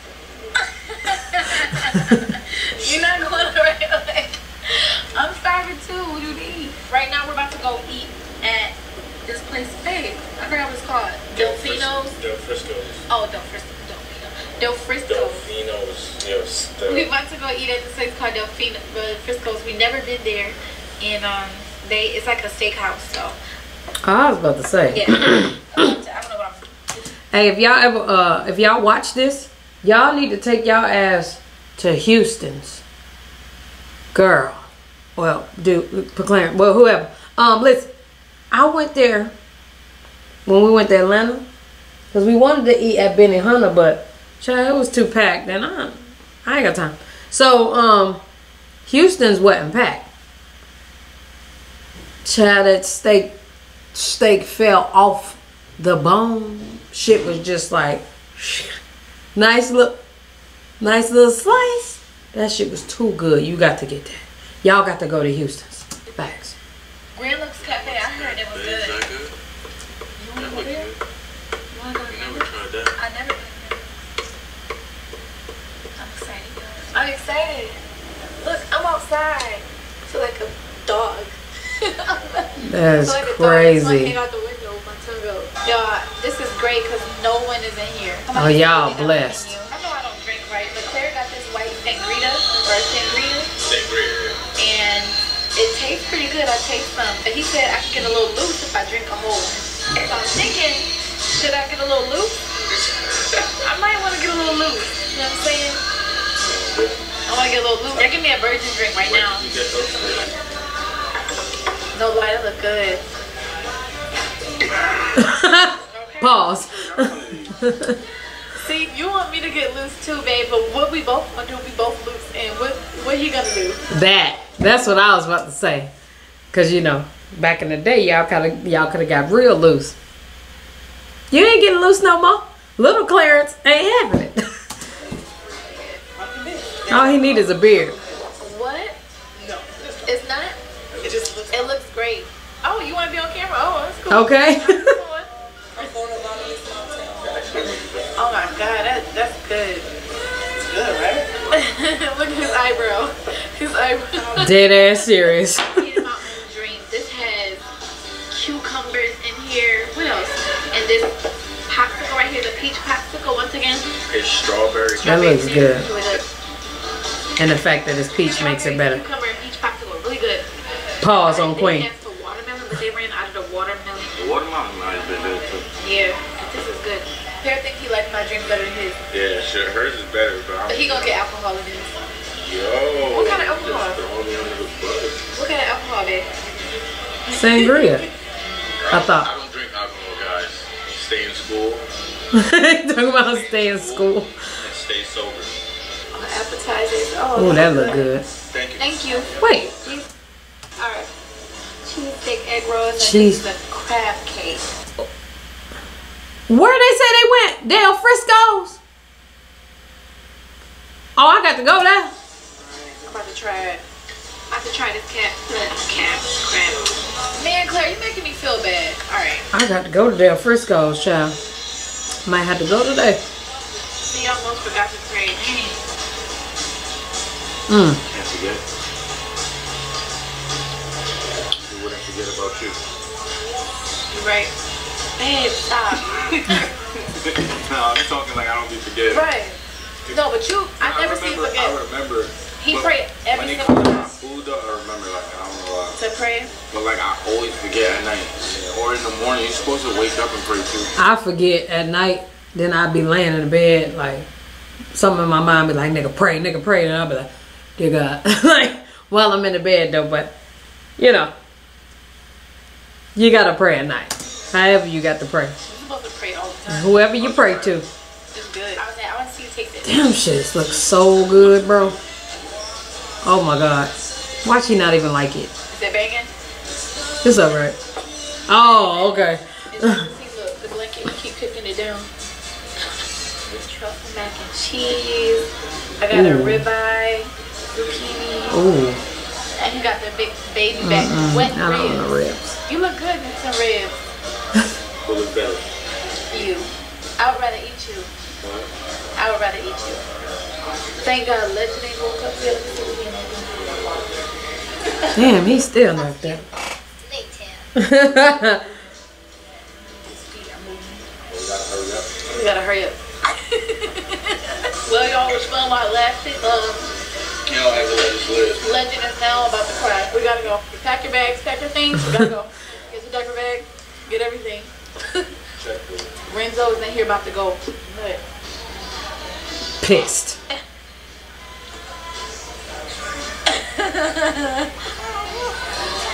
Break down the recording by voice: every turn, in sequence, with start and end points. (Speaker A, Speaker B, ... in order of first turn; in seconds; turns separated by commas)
Speaker A: 0.6-8.7, Speaker B: 2.8-3.1, Speaker A: 9.2-12.2, Speaker B: 11.3-13.0, Speaker A: 13.1-15.4, Speaker B: 15.1-17.1, Speaker A: 16.9-23.4, Speaker C: 24.0-25.6, Speaker A: 24.9-26.7, Speaker C: 27.3-32.8, Speaker C: 34.1-34.6, Speaker C: 35.2-37.9, Speaker C: 38.5-39.3, Speaker C: 40.5-41.4, Speaker C: 42.1-48.2, Speaker C: 48.9-50.1, Speaker C: 52.2-53.3, Speaker C: 53.9-58.7, Speaker C: 59.3-60.0, Speaker C: 60.8-66.5, Speaker A: 66.1-66.3, Speaker A: 67.1-69.0, Speaker B: 67.6-69.3, Speaker A: 70.2-70.9, Speaker B: 70.4-71.0, Speaker A: 71.7-73.9, Speaker B: 72.1-73.0, Speaker A: 76.0-77.8, Speaker A: 78.4-82.5, Speaker C: 82.6-84.1, Speaker A: 83.0-93.5, Speaker C: 88.3-89.5, Speaker B: 93.6-94.4, Speaker A: 94.6-102.5, Speaker A: 103.4-105.8, Speaker B: 106.4-107.0, Speaker A: 107.3-109.5, Speaker B: 109.0-110.3, Speaker A: 111.9-113.0, Speaker C: 115.2-118.0, Speaker A: 115.8-116.4, Speaker B: 116.5-117.5, Speaker A: 118.5-123.8, Speaker C: 123.9-125.9, Speaker C: 126.5-130.0, Speaker C: 131.3-134.4, Speaker A: 135.5-136.1, Speaker B: 136.7-137.3, Speaker C: 136.9-137.9, Speaker A: 138.3-138.9, Speaker B: 139.5-139.8, Speaker A: 140.0-140.6, Speaker B: 140.9-141.5, Speaker A: 141.5-149.8, Speaker C: 144.1-144.9, Speaker B: 147.2-148.2, Speaker B: 150.6-151.5, Speaker A: 151.5-157.6, Speaker C: 154.4-155.8, Speaker A: 158.3-161.1, Speaker A: 161.7-163.9, Speaker B: 164.1-165.2, Speaker A: 165.0-166.2, Speaker C: 165.0-165.9, Speaker C: 167.4-169.0, Speaker A: 168.2-170.5, Speaker C: 171.0-171.9, Speaker A: 171.0-174.2, Speaker B: 174.2-175.7, Speaker A: 175.8-179.0, Speaker B: 179.1-181.2, Speaker A: 180.7-181.9, Speaker B: 182.3-185.2, Speaker A: 183.1-184.0, Speaker A: 185.3-186.3, Speaker A: 187.2-188.0, Speaker C: 187.3-188.0, Speaker B: 188.8-191.8, Speaker C: 188.9-189.3, Speaker C: 192.3-194.5, Speaker B: 193.2-195.5, Speaker A: 196.1-198.1, Speaker C: 197.3-198.2, Speaker B: 198.5-199.1, Speaker A: 198.8-200.1, Speaker C: 199.4-199.8, Speaker A: 200.8-201.1, Speaker A: 201.8-204.6, Speaker C: 203.0-203.4, Speaker C: 206.5-208.8, Speaker C: 211.2-212.1, Speaker A: 213.0-213.8, Speaker A: 214.5-219.4, Speaker C: 219.5-221.3, Speaker C: 222.2-223.2, Speaker A: 224.1-225.8, Speaker C: 227.7-228.0, Speaker B: 228.0-228.6, Speaker B: 231.6-232.8, Speaker A: 234.1-234.5, Speaker A: 235.2-236.7, Speaker B: 237.1-239.3, Speaker A: 239.1-241.8, Speaker B: 240.8-246.0, Speaker A: 242.6-244.1, Speaker A: 245.9-246.5, Speaker B: 246.7-250.9, Speaker C: 251.0-254.3, Speaker C: 254.9-260.3, Speaker C: 261.0-261.3, Speaker C: 263.1-265.6, Speaker A: 265.6-267.0, Speaker C: 266.7-267.9, Speaker B: 267.1-267.8, Speaker A: 268.3-270.0, Speaker C: 269.8-271.9, Speaker B: 271.2-272.0, Speaker C: 273.2-273.9, Speaker C: 274.4-275.5, Speaker A: 275.7-276.3, Speaker C: 277.2-277.8, Speaker C: 278.5-280.0, Speaker A: 278.5-282.1, Speaker A: 283.5-288.7, Speaker C: 286.1-286.6, Speaker C: 288.5-289.0, Speaker A: 289.6-292.1, Speaker C: 290.8-292.6, Speaker A: 292.7-294.0, Speaker B: 295.0-295.6, Speaker A: 296.3-298.1, Speaker B: 298.4-298.7, Speaker A: 299.2-300.0, Speaker A: 301.0-304.0, Speaker A: 305.0-305.4, Speaker C: 305.1-306.4, Speaker A: 305.9-306.4, Speaker A: 307.0-307.7, Speaker C: 307.8-308.6, Speaker A: 309.7-311.1, Speaker B: 311.3-312.3, Speaker A: 312.3-316.9, Speaker B: 317.5-318.8, Speaker A: 318.6-325.2, Speaker B: 325.6-326.1, Speaker A: 326.3-328.2, Speaker C: 329.8-330.4, Speaker A: 333.4-334.7